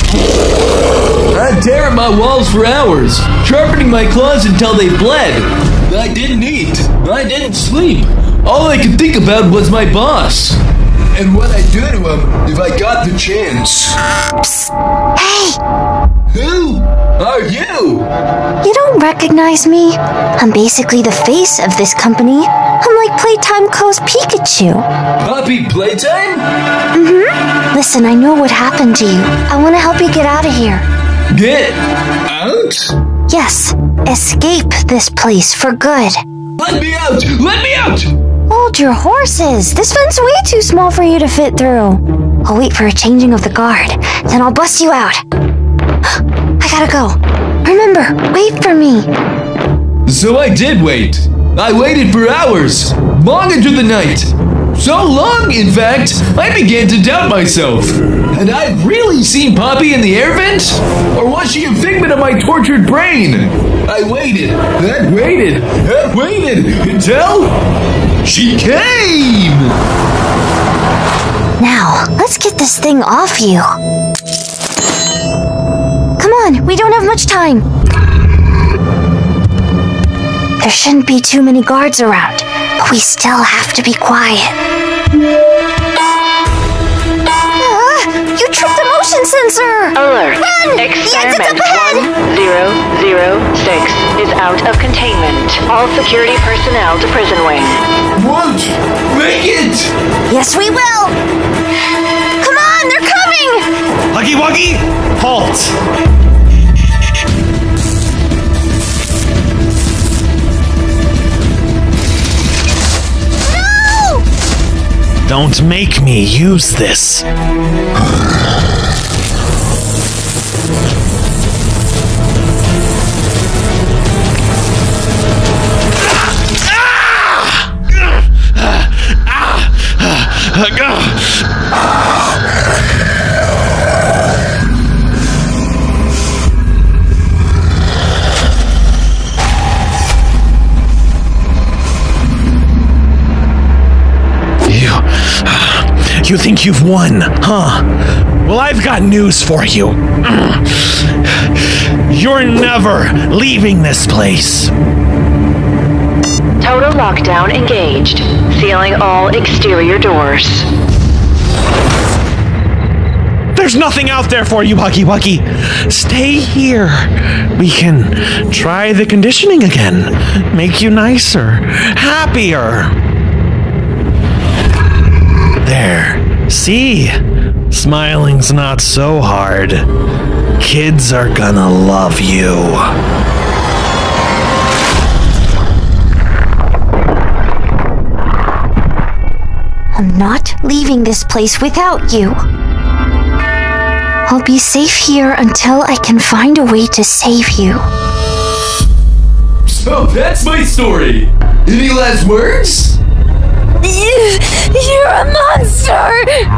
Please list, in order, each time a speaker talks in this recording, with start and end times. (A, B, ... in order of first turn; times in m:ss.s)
0:01.3-0:10.6 A
0:11.1-0:14.0 A
0:14.4-0:15.6 B
0:16.3-0:18.1 A
0:18.6-0:24.9 B
0:25.2-0:26.5 A
0:26.9-0:30.9 B
0:31.3-0:33.0 A
0:33.3-0:36.2 B
0:36.6-0:38.1 A
0:38.5-0:45.2 B
0:46.6-0:49.1 B
0:50.1-1:07.6 A
1:08.2-1:09.8 A
1:11.6-1:13.7 B
1:16.2-1:17.6 B
1:20.6-1:24.6 B
1:27.6-1:32.1 B
1:30.0-1:37.8 C
1:38.2-1:39.9 A
1:40.3-1:41.2 B
1:42.4-1:43.7 B
1:44.1-1:45.8 D
1:55.3-1:57.3 D
2:06.6-2:11.5 D
2:24.7-2:27.9 D
2:28.4-2:34.7 D
2:36.6-2:40.7 C
2:43.6-2:53.0 D
2:55.6-2:57.2 D
2:57.7-2:59.9 D
3:00.6-3:03.0 D
3:09.9-3:12.4 B
3:14.3-3:17.8 B
3:19.7-3:23.0 A
3:23.8-3:26.2 C
3:25.5-3:26.0 B